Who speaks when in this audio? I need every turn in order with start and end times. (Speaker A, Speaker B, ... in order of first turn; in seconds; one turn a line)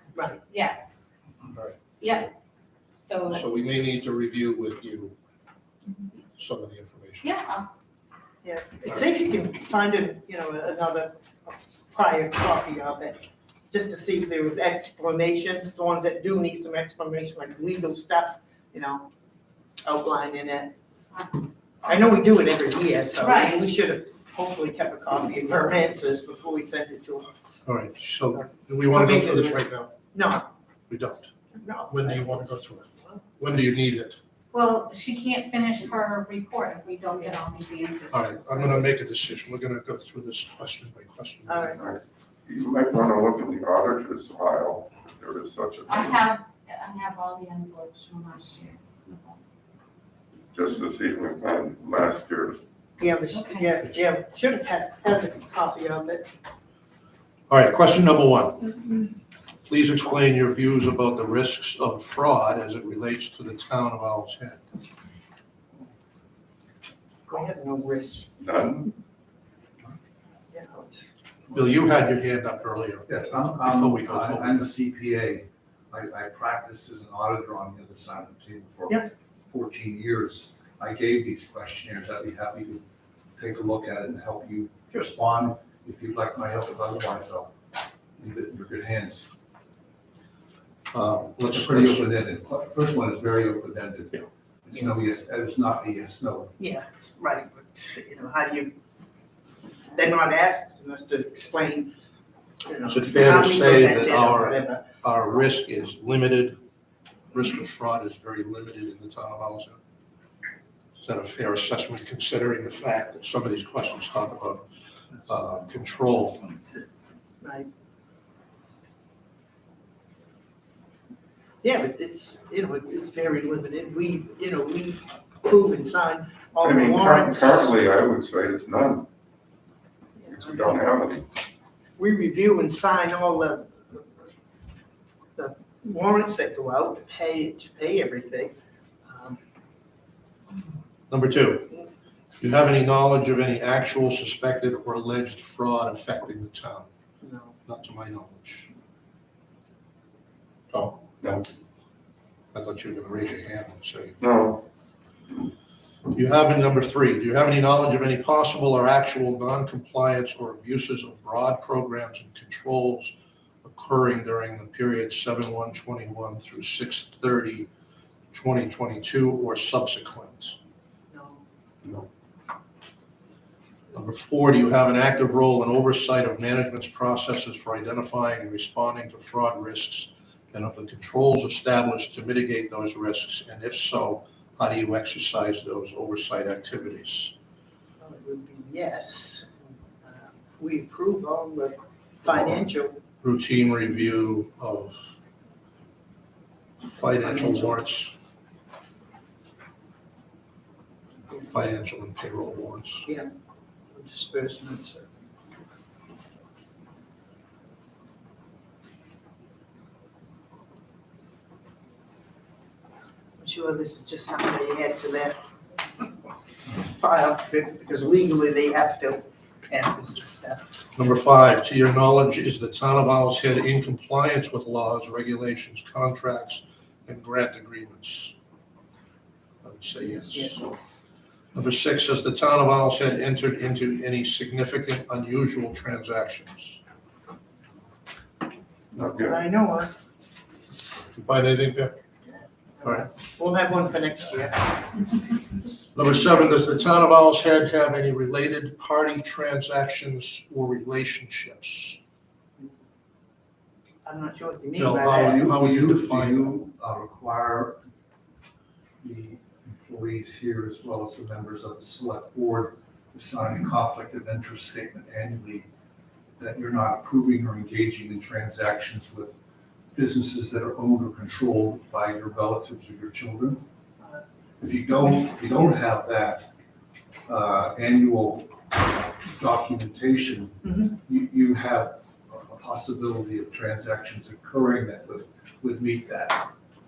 Speaker A: 0.5-1.1
Speaker B: 1.5-1.9
Speaker A: 2.0-2.3
Speaker A: 3.0-3.4
Speaker B: 3.3-5.2
Speaker B: 6.4-7.3
Speaker A: 7.2-7.6
Speaker C: 8.4-19.1
Speaker C: 19.8-20.8
Speaker C: 21.8-27.3
Speaker A: 23.2-23.6
Speaker B: 27.7-29.9
Speaker C: 28.9-29.6
Speaker C: 30.1-30.5
Speaker B: 30.9-31.3
Speaker C: 31.5-32.5
Speaker B: 31.9-34.2
Speaker A: 34.5-38.2
Speaker B: 38.1-41.8
Speaker C: 41.5-41.8
Speaker D: 41.8-46.3
Speaker A: 45.9-49.4
Speaker D: 50.5-52.6
Speaker C: 53.0-56.3
Speaker A: 53.3-53.7
Speaker B: 57.5-58.7
Speaker B: 59.7-64.6
Speaker C: 67.3-68.3
Speaker D: 68.4-68.9
Speaker C: 70.5-71.1
Speaker B: 71.5-74.7
Speaker E: 73.1-87.5
Speaker E: 88.2-89.3
Speaker B: 90.9-92.1
Speaker E: 91.5-96.5
Speaker C: 96.6-98.8
Speaker C: 99.9-101.9
Speaker C: 102.7-104.8
Speaker B: 102.8-106.6
Speaker B: 107.3-109.8
Speaker B: 111.0-114.6
Speaker B: 115.2-116.5
Speaker C: 117.4-117.7
Speaker C: 121.6-127.7
Speaker D: 126.6-129.1
Speaker C: 130.2-130.9
Speaker D: 130.3-131.3
Speaker C: 132.0-134.1
Speaker C: 135.4-138.5
Speaker C: 139.1-139.4
Speaker B: 141.1-141.8
Speaker B: 142.4-146.9
Speaker C: 147.2-147.6
Speaker B: 147.7-148.7
Speaker B: 150.7-151.0
Speaker B: 152.5-154.2
Speaker D: 154.2-154.7
Speaker B: 156.1-167.7
Speaker B: 168.3-170.6
Speaker C: 171.1-171.4
Speaker B: 173.9-187.3
Speaker C: 188.0-193.0
Speaker B: 193.2-195.1
Speaker B: 196.8-198.2
Speaker C: 197.2-197.7
Speaker B: 201.4-203.1
Speaker C: 203.9-205.1
Speaker C: 213.4-215.4
Speaker C: 216.8-220.8
Speaker B: 221.0-228.3
Speaker B: 229.6-230.8
Speaker C: 230.3-230.6
Speaker B: 231.5-236.8
Speaker D: 239.0-239.3
Speaker C: 239.0-239.9
Speaker B: 241.1-241.9
Speaker C: 242.8-245.1
Speaker B: 245.9-252.0
Speaker C: 254.1-255.4
Speaker B: 254.8-256.7
Speaker E: 255.2-257.8
Speaker E: 259.0-265.7
Speaker E: 266.4-269.4
Speaker E: 269.9-273.6
Speaker E: 274.6-276.5
Speaker E: 277.3-286.5
Speaker C: 280.6-280.9